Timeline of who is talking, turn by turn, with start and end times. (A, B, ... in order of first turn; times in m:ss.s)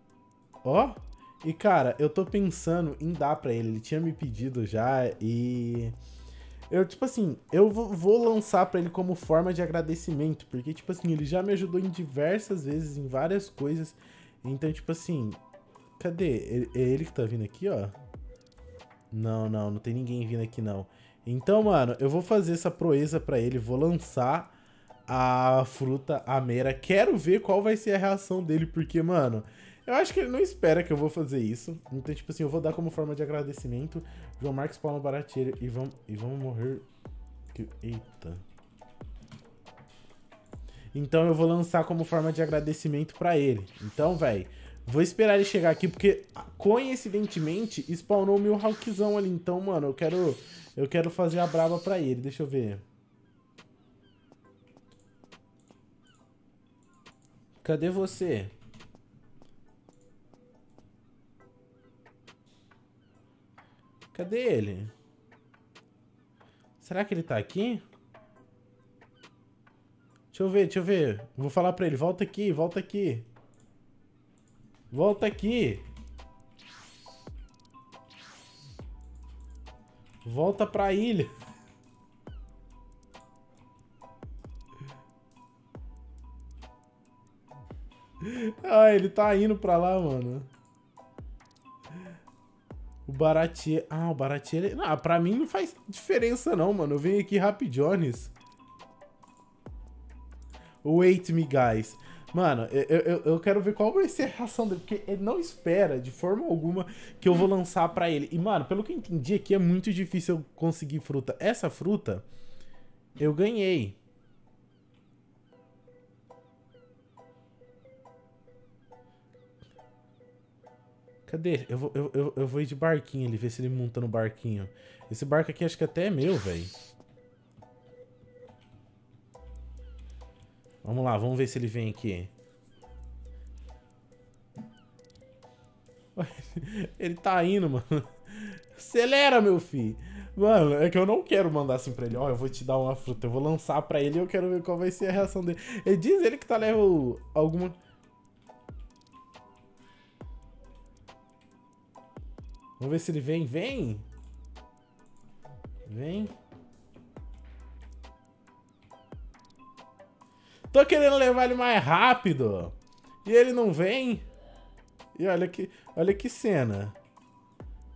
0:00.6-0:05.9 A
0:06.7-0:15.4 A
0:16.0-0:17.9 A
0:19.1-0:24.5 A
0:25.1-0:36.8 A
0:37.5-0:38.4 A
0:40.9-0:52.8 A
0:57.6-0:58.5 A
1:04.1-1:04.9 A
1:06.8-1:07.8 A
1:10.3-1:13.3 A
1:14.9-1:15.8 A
1:20.2-1:21.3 A
1:28.2-1:30.5 A
1:33.0-1:38.3 A
1:40.8-1:52.2 A
1:53.2-1:54.0 A
2:01.3-2:06.7 A
2:10.8-2:12.3 A
2:16.1-2:27.8 A
2:32.8-2:34.0 A
2:35.8-2:36.3 A
2:40.7-2:44.2 A
2:45.1-2:47.0 A